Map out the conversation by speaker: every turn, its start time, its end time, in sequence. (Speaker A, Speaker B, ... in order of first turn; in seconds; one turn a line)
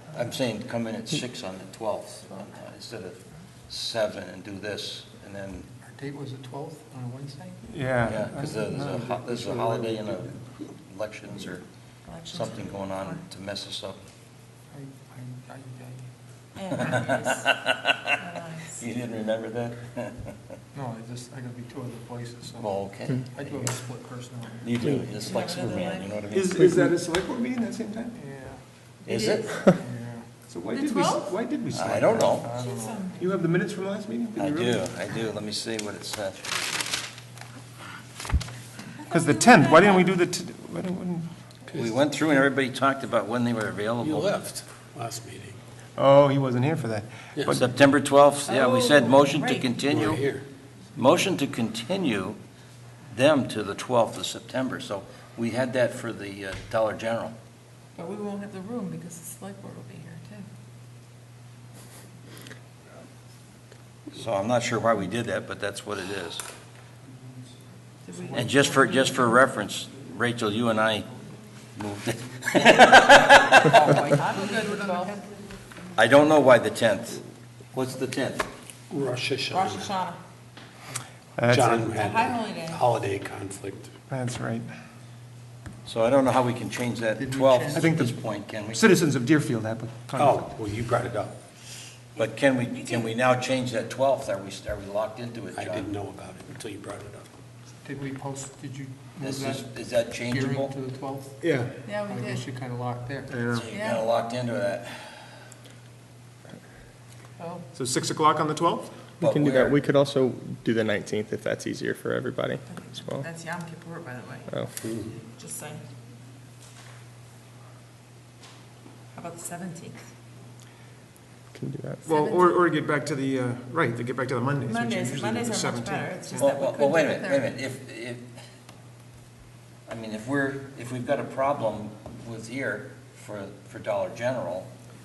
Speaker A: 0.1-5.7
Speaker B: 5.8-7.7
Speaker C: 7.7-9.0
Speaker A: 8.1-14.0
Speaker B: 8.4-10.3
Speaker D: 12.0-13.2
Speaker B: 14.7-16.1
Speaker D: 16.6-17.6
Speaker A: 16.8-18.0
Speaker D: 18.1-18.8
Speaker A: 18.7-20.4
Speaker B: 20.7-25.0
Speaker A: 22.6-23.3
Speaker C: 23.4-23.8
Speaker A: 24.6-26.6
Speaker E: 24.8-25.1
Speaker D: 25.1-26.1
Speaker C: 26.3-28.2
Speaker E: 26.6-26.9
Speaker B: 28.1-28.6
Speaker A: 29.0-29.6
Speaker D: 29.1-29.7
Speaker B: 29.8-30.3
Speaker C: 30.4-32.6
Speaker D: 30.7-31.3
Speaker A: 31.7-32.5
Speaker B: 32.4-33.1
Speaker D: 32.5-33.2
Speaker C: 33.1-34.9
Speaker A: 34.4-36.4
Speaker C: 39.0-41.3
Speaker D: 39.2-40.0
Speaker A: 41.7-44.5
Speaker F: 44.0-45.6
Speaker C: 46.0-47.7
Speaker A: 47.5-50.3
Speaker D: 48.5-50.0
Speaker F: 49.9-50.5
Speaker A: 51.0-52.4
Speaker A: 53.0-57.3
Speaker D: 58.0-60.5
Speaker A: 64.1-66.4
Speaker D: 68.0-69.3
Speaker B: 68.1-68.9
Speaker A: 68.3-71.1
Speaker A: 71.7-73.9
Speaker B: 73.7-75.1
Speaker D: 73.7-75.2
Speaker A: 76.0-78.5
Speaker F: 78.9-80.0
Speaker D: 79.5-80.2
Speaker C: 81.3-81.9
Speaker F: 81.5-83.9
Speaker D: 82.0-82.8
Speaker C: 84.1-84.7
Speaker A: 85.8-88.8
Speaker B: 87.2-87.9
Speaker C: 87.7-90.5
Speaker F: 90.2-91.3
Speaker A: 92.2-95.9
Speaker F: 95.5-97.3
Speaker B: 97.8-103.3
Speaker A: 99.2-100.7
Speaker C: 101.4-101.7
Speaker D: 101.8-102.5
Speaker C: 103.3-103.7
Speaker A: 103.5-105.2
Speaker D: 103.7-104.0
Speaker B: 107.4-107.6
Speaker C: 107.7-108.9
Speaker A: 109.2-109.8
Speaker E: 109.2-113.3
Speaker D: 112.7-114.5
Speaker E: 114.5-114.7
Speaker F: 114.8-115.1
Speaker D: 115.2-115.8
Speaker D: 119.1-120.0
Speaker E: 121.5-122.0
Speaker C: 122.0-126.6
Speaker D: 122.0-122.5
Speaker D: 124.7-127.5
Speaker A: 126.4-128.3
Speaker A: 129.9-134.7